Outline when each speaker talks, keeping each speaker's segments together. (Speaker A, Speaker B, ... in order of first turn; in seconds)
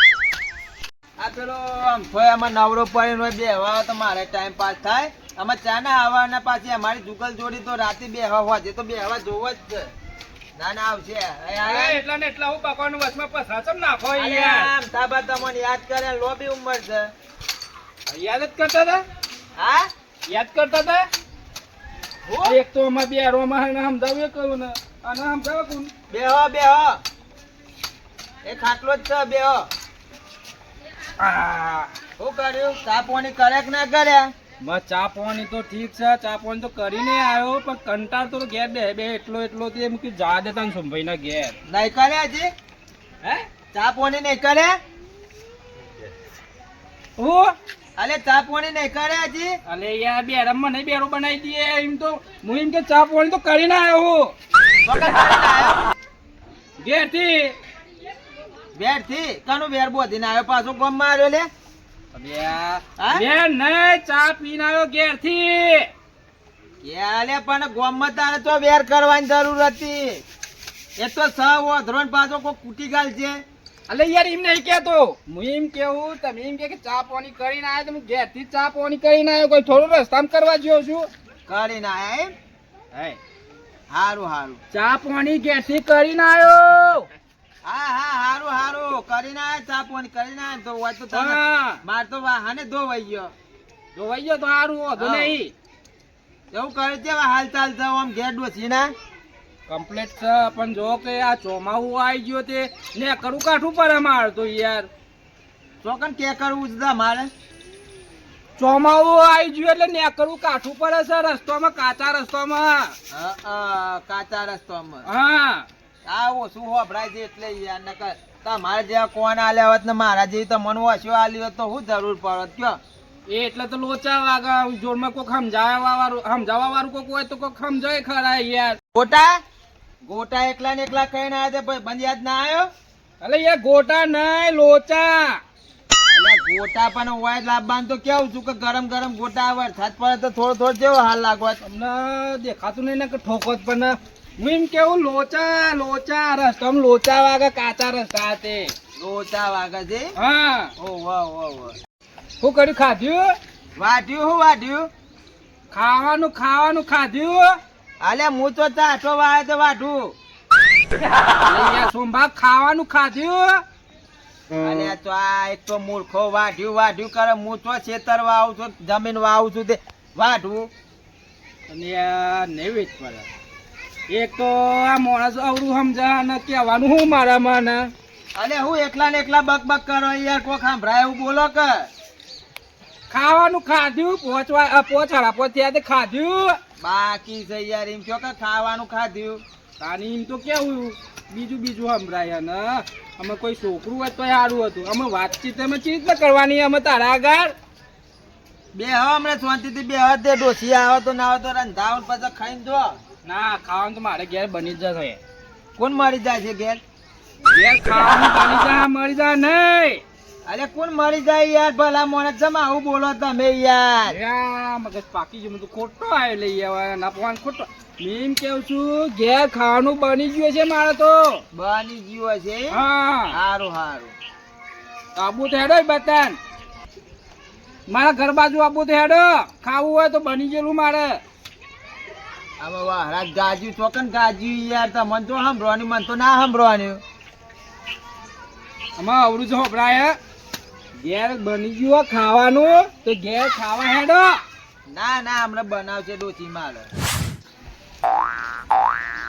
Speaker A: 1.2-9.9, 10.6-12.0, 14.1-17.1, 19.6-19.9, 22.3-22.6, 26.1-27.0, 28.4-29.6, 32.2-34.3, 41.7-42.5, 43.7-44.7, 48.0-49.5, 54.8-55.8, 58.8-61.5, 63.0-63.2, 66.8-70.2, 71.0-73.4, 81.5-82.3, 83.9-84.6, 87.6-93.3, 95.0-95.4, 96.5-98.9, 105.8-107.3, 113.1-115.0, 116.0-122.8, 128.9-129.4, 130.0-132.7, 136.1-141.6, 149.0-150.1, 150.8-151.8, 153.8-154.9, 158.0-160.2, 164.5-170.7, 178.3-181.9, 186.8-189.4, 198.7-202.9, 205.8-206.8, 210.5-214.2, 221.5-222.8, 223.3-224.1, 232.6-237.0, 244.9-246.9
Speaker B: 11.6-14.7, 18.1-19.0, 20.3-21.1, 22.4-25.9, 31.2-31.9, 34.6-41.5, 47.2-47.5, 49.7-54.3, 56.8-57.5, 62.1-65.9, 73.9-81.1, 82.9-83.2, 84.7-87.1, 91.1-91.8, 93.9-95.5, 99.7-104.9, 108.6-112.9, 115.0-115.7, 123.3-128.8, 133.2-135.4, 141.6-148.7, 150.2-150.7, 152.4-153.3, 155.7-157.6, 161.4-163.6, 171.7-173.3, 174.1-177.9, 183.1-186.6, 189.8-197.5, 203.2-205.2, 207.5-210.0, 214.1-221.4, 222.7-223.3, 225.2-226.4, 227.9-231.2, 239.0-240.2, 241.0-244.4